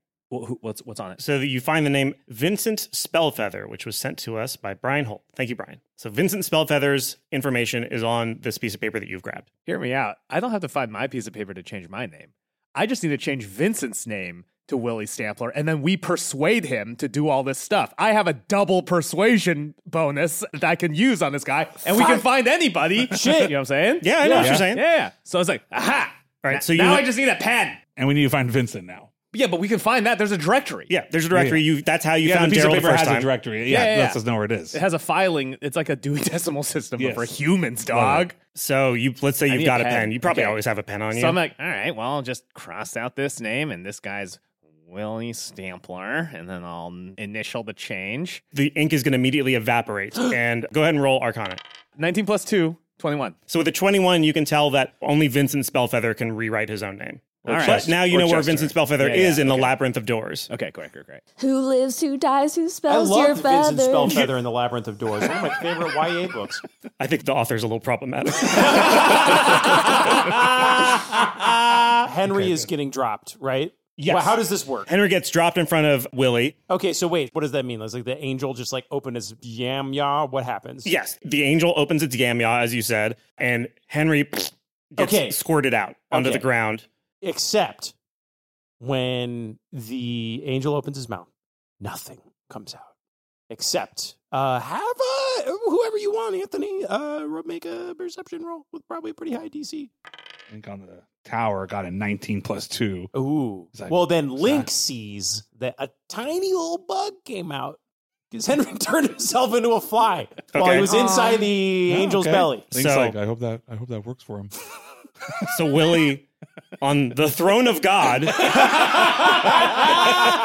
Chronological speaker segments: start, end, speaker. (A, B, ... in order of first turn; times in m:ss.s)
0:00.3-0:01.2 A
0:01.2-0:09.5 B
0:09.7-0:27.8 A
0:22.0-0:22.2 C
0:23.1-0:23.5 C
0:24.0-0:24.8 B
0:24.4-0:24.6 D
0:26.4-0:27.1 B
0:28.0-0:29.1 D
0:29.3-0:30.9 A
0:30.9-0:33.3 B
0:31.3-0:31.6 D
0:32.2-0:34.8 D
0:33.7-0:34.2 A
0:34.7-0:38.3 A
0:37.0-0:37.3 D
0:37.9-0:38.3 D
0:38.5-0:41.4 B
0:39.5-0:40.6 A
0:41.1-0:48.4 A
0:48.5-0:51.6 B
0:52.0-0:53.4 A
0:53.5-1:00.5 B
0:57.4-0:59.7 A
0:57.5-0:57.9 D
1:00.5-1:01.2 A
1:01.4-1:04.2 E
1:02.9-1:06.6 C
1:07.0-1:10.4 B
1:08.5-1:11.0 C
1:11.4-1:11.9 B
1:12.0-1:14.9 C
1:12.3-1:12.6 D
1:14.0-1:16.6 B
1:16.7-1:20.9 C
1:20.8-1:26.8 B
1:25.0-1:25.4 C
1:26.1-1:26.4 C
1:27.2-1:27.9 C
1:28.8-1:31.3 C
1:31.8-1:32.9 C
1:33.5-1:39.9 C
1:40.5-1:43.1 D
1:43.1-1:47.8 C
1:43.7-1:44.7 D
1:48.3-1:52.6 C
1:50.5-1:50.9 B
1:50.8-1:51.5 E
1:51.9-1:54.5 D
1:52.7-1:53.1 B
1:55.5-1:56.2 B
1:56.8-1:58.9 B